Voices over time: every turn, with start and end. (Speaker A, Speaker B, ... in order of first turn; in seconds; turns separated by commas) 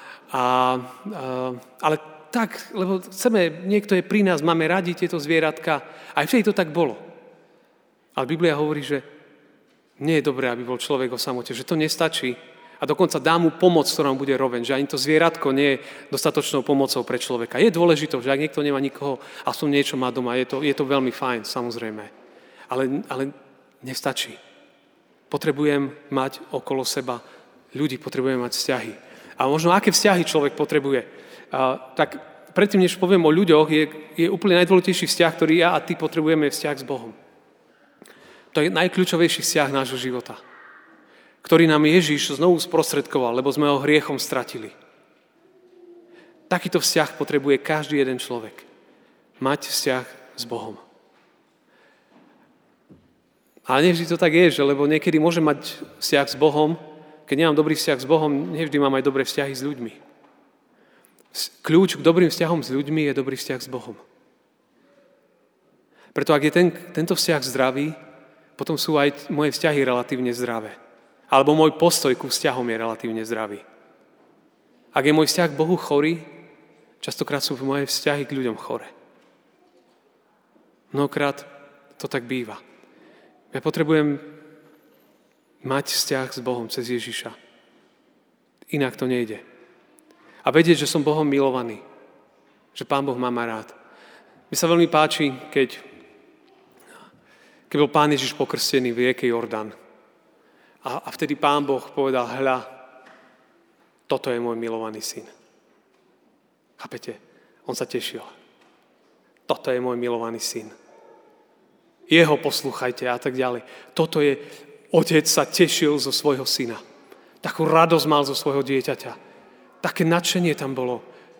Speaker A: 0.3-7.0, Speaker A: 8.2-9.1, Speaker A: 10.0-22.1, Speaker A: 22.7-24.4, Speaker A: 25.3-37.2, Speaker A: 38.5-40.4, Speaker A: 41.4-44.8, Speaker A: 46.5-48.7, Speaker A: 49.4-50.8, Speaker A: 53.7-60.0, Speaker A: 61.3-64.0, Speaker A: 66.1-68.0, Speaker A: 68.6-70.8, Speaker A: 71.3-73.6, Speaker A: 74.9-76.3, Speaker A: 77.0-78.9, Speaker A: 80.9-82.6, Speaker A: 83.5-84.3, Speaker A: 85.6-87.3, Speaker A: 88.7-89.4, Speaker A: 90.4-91.8, Speaker A: 92.7-93.8, Speaker A: 94.5-95.8, Speaker A: 97.7-99.7, Speaker A: 100.8-102.7, Speaker A: 104.1-105.3, Speaker A: 106.8-108.3, Speaker A: 109.5-110.7, Speaker A: 112.1-116.8, Speaker A: 117.4-119.2, Speaker A: 119.8-121.0